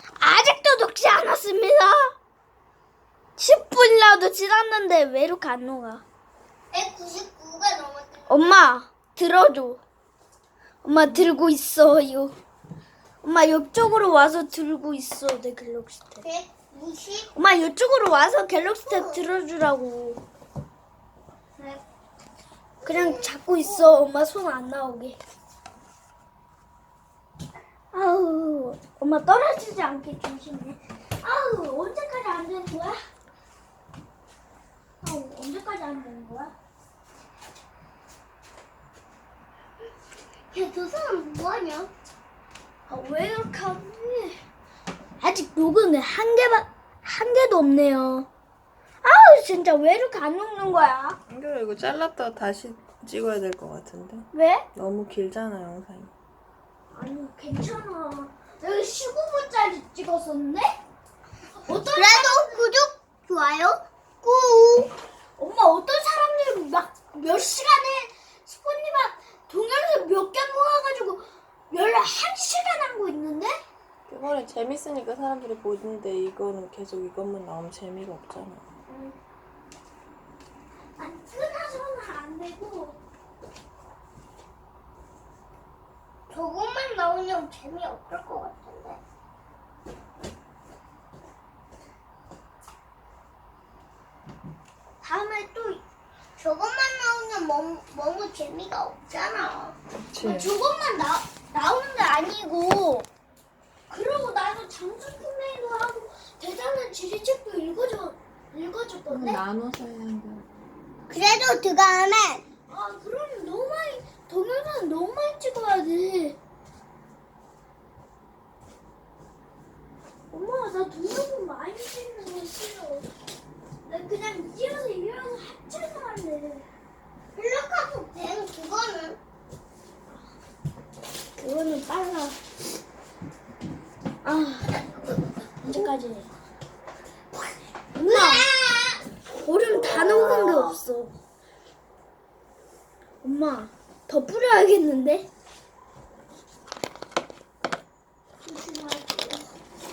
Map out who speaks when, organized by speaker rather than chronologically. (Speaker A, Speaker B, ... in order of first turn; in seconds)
Speaker A: 0.2-2.1, 3.4-6.0, 8.3-9.8, 10.8-12.3, 13.2-16.2, 17.3-20.2, 22.9-25.2, 27.9-33.0, 35.0-36.5, 42.9-44.4, 45.2-48.3, 49.0-51.2, 54.3-54.6, 56.9-60.8, 61.6-62.6, 65.4-73.6, 78.9-79.1, 81.0-83.0, 95.0-95.8, 100.2-103.1, 103.9-109.4, 112.7-116.4, 120.3-123.1, 123.9-126.7, 131.4-132.4, 134.2-134.7, 135.6-136.3, 137.9-138.4, 139.3-141.1, 143.2-145.3, 148.5-149.0
Speaker B: 6.7-8.6, 16.2-17.4, 18.9-19.2, 22.8-23.9, 40.5-41.9, 62.0-64.9, 86.3-89.0, 96.4-99.8, 111.1-112.4, 127.4-129.2, 134.7-135.9, 138.1-139.0, 139.9-140.8, 148.4-149.4
Speaker C: 51.3-56.1, 74.1-78.6, 100.1-100.5, 109.1-110.5